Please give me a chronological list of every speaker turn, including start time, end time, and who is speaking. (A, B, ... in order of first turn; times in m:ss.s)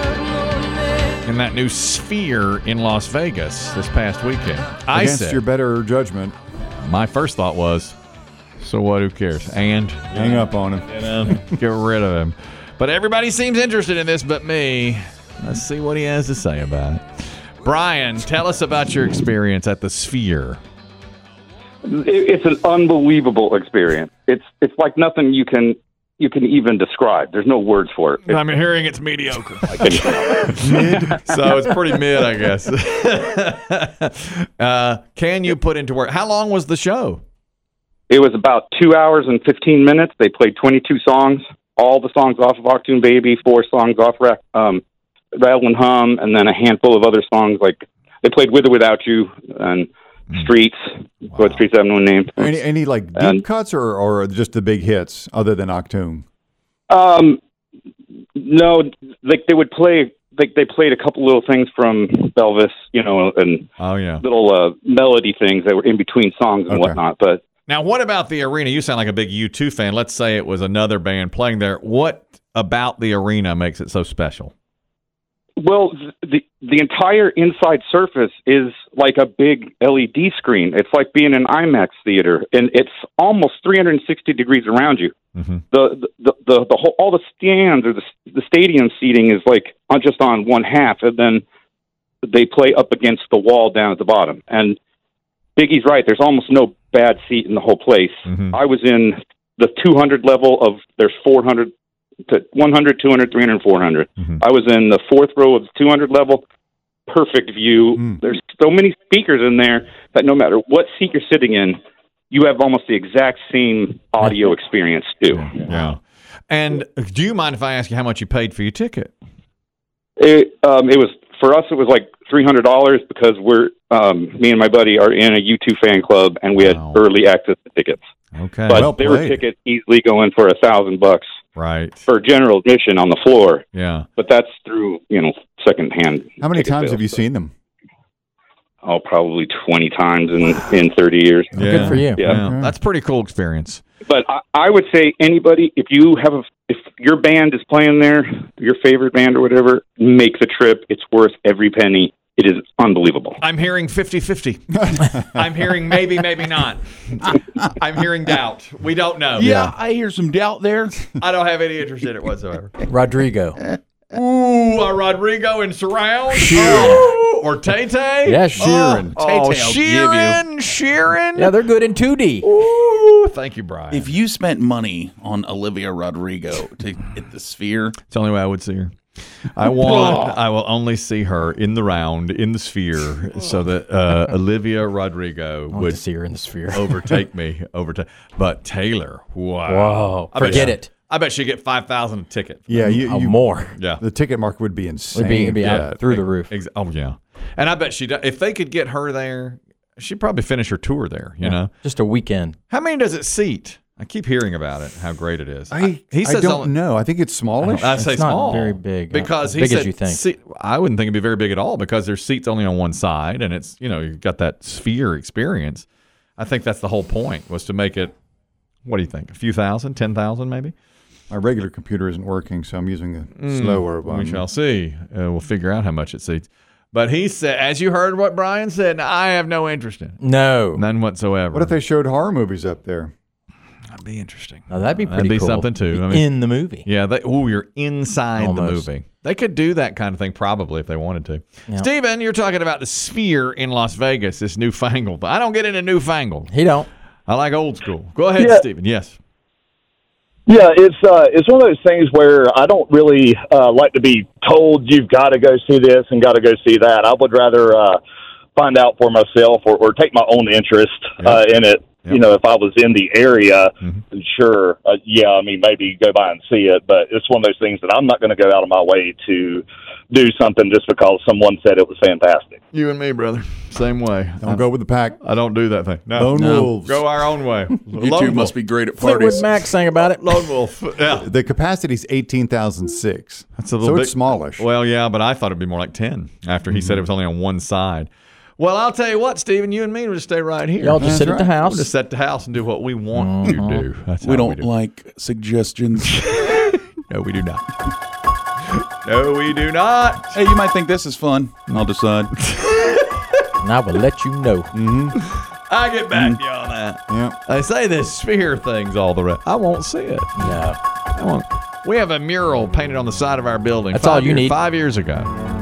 0:01.2-0:05.4 A
0:04.9-0:06.4 B
0:06.8-0:08.0 A
0:08.6-0:10.4 A
0:10.1-0:11.4 B
0:11.0-0:17.0 A
0:17.6-0:20.6 A
0:21.8-0:28.3 C
0:28.2-0:37.2 A
0:29.8-0:31.0 C
0:30.6-0:31.4 B
0:38.1-0:44.8 C
0:45.4-0:50.8 C
0:51.3-0:52.5 C
0:51.3-0:51.6 A
0:52.4-0:56.2 B
0:53.2-0:53.4 C
0:56.9-0:57.4 C
0:58.4-1:03.7 C
1:03.8-1:04.2 A
1:04.2-1:07.4 C
1:06.7-1:07.0 B
1:07.7-1:14.5 A
1:15.6-1:25.1 C
1:25.4-1:25.6 A
1:25.7-1:31.4 C
1:32.2-1:34.8 C
1:35.6-1:41.7 C
1:38.3-1:38.5 A
1:42.3-1:46.4 C
1:47.1-1:51.8 C
1:52.3-1:55.6 C
1:55.4-1:59.1 A
2:00.2-2:08.0 C
2:06.6-2:07.0 A
2:08.3-2:08.9 A
2:08.7-2:11.2 C
2:08.7-2:09.4 B
2:11.6-2:12.0 A
2:12.1-2:13.6 C
2:13.7-2:14.1 A
2:14.2-2:17.2 C
2:16.4-2:17.5 B
2:18.8-2:22.4 C
2:21.5-2:23.8 A
2:21.6-2:22.2 D
2:21.6-2:22.7 B
2:24.0-2:33.4 C
2:33.4-2:39.5 A
2:35.1-2:35.4 B
2:39.3-2:41.1 E
2:39.4-2:39.7 B
2:41.1-2:42.8 A
2:42.9-2:43.6 D
2:44.1-2:51.5 A
2:46.5-2:47.1 D
2:46.6-2:46.9 E
2:48.2-2:49.1 D
2:49.1-2:50.4 E
2:51.3-2:52.5 D
2:52.4-2:54.1 A
2:53.9-2:58.0 E
2:58.0-2:58.9 A
2:59.5-3:06.0 A
3:05.7-3:07.2 D
3:06.7-3:12.7 A
3:09.6-3:10.9 D
3:10.4-3:10.7 B
3:12.7-3:16.0 B
3:12.7-3:13.7 D
3:13.8-3:14.0 A
3:15.1-3:16.5 D
3:15.6-3:21.7 A
3:21.4-3:22.6 D
3:22.7-3:26.7 A
3:25.7-3:28.0 B
3:27.6-3:30.2 D
3:27.8-3:38.1 A
3:38.8-3:40.7 A
3:41.3-3:44.4 B
3:43.4-3:50.2 A
3:50.2-3:50.8 D
3:50.7-3:51.7 A
3:51.5-3:53.1 B
3:53.9-3:56.3 A
3:54.7-3:56.8 D
3:56.8-4:06.5 A
3:58.4-3:58.9 D
4:06.5-4:06.9 D
4:07.3-4:09.2 A
4:08.4-4:08.6 F
4:10.5-4:18.0 F
4:18.6-4:32.6 F
4:21.2-4:22.2 A
4:32.7-4:34.6 A
4:34.4-4:35.2 B
4:35.2-4:38.5 A
4:36.1-4:37.0 B
4:36.3-4:36.7 D
4:38.0-4:39.6 E
4:39.0-4:40.4 D
4:40.0-4:41.3 A
4:41.1-4:44.6 B
4:43.6-4:54.7 A
4:46.7-4:47.0 B
4:50.8-4:51.9 D
4:51.0-4:51.5 B
4:53.1-4:53.9 D
4:54.2-4:56.2 E
4:56.2-4:57.6 A
4:58.7-5:00.4 A
5:00.3-5:02.3 E
5:02.4-5:03.3 A
5:03.6-5:04.7 D
5:04.7-5:05.2 B
5:05.2-5:10.5 A
5:06.1-5:06.4 E
5:07.1-5:07.3 B
5:10.4-5:10.8 D
5:11.1-5:15.3 A
5:13.9-5:14.6 D